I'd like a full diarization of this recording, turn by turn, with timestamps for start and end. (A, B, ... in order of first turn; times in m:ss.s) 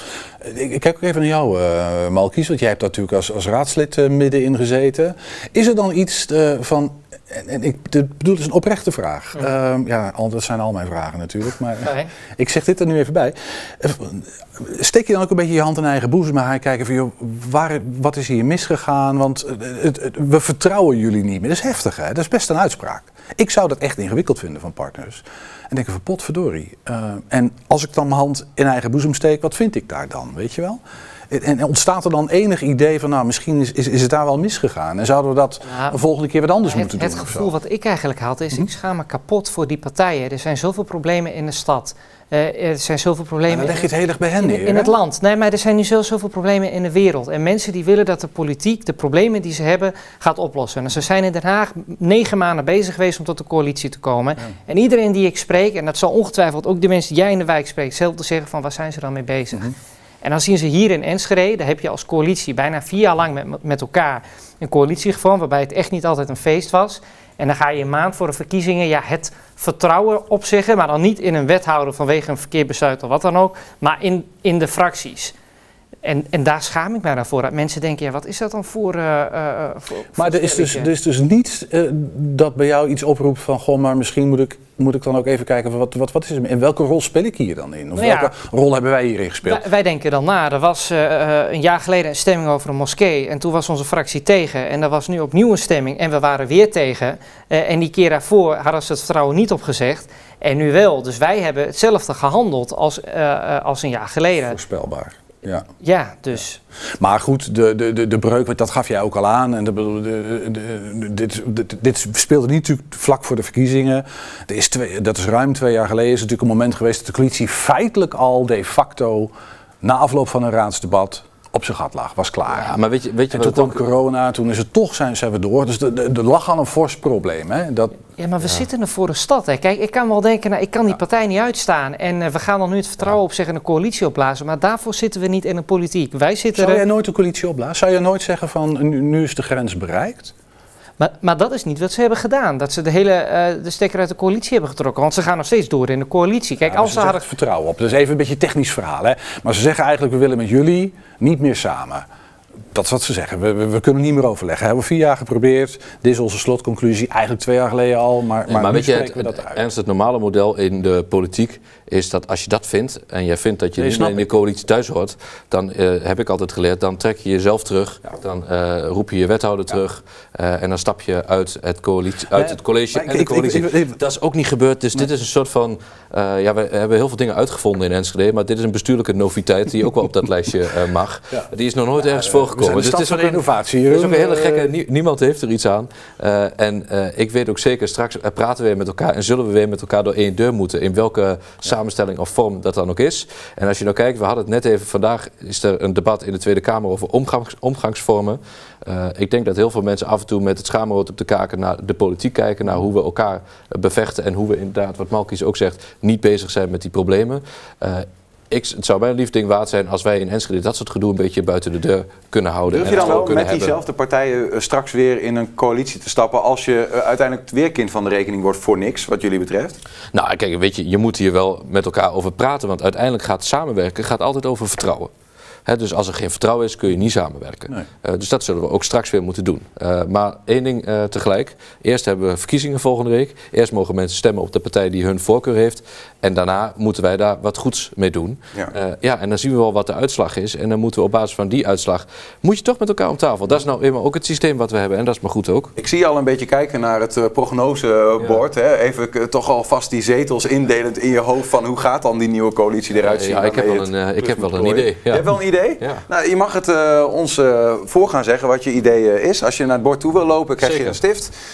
0:00.4-0:37.5 A
0:11.8-0:12.1 B
0:35.7-0:36.0 B
0:36.7-1:15.3 B
0:43.5-0:45.0 A
1:16.0-1:20.9 B
1:20.1-1:29.6 A
1:28.0-1:28.3 B
1:29.4-1:44.6 B
1:44.5-1:45.6 A
1:45.8-1:46.6 B
1:47.0-1:59.3 A
1:59.8-2:02.8 A
2:02.5-2:03.8 C
2:03.3-2:08.0 A
2:08.2-2:16.8 B
2:16.5-2:20.3 A
2:21.0-2:27.3 B
2:26.6-2:32.0 A
2:32.7-2:39.6 A
2:38.5-3:33.8 C
2:43.8-2:44.3 A
2:52.3-2:54.0 A
3:02.0-3:04.7 A
3:32.7-3:39.8 D
3:40.1-3:45.1 C
3:45.6-4:05.7 C
4:05.8-4:21.3 D
4:13.0-4:16.0 C
4:20.6-4:21.0 C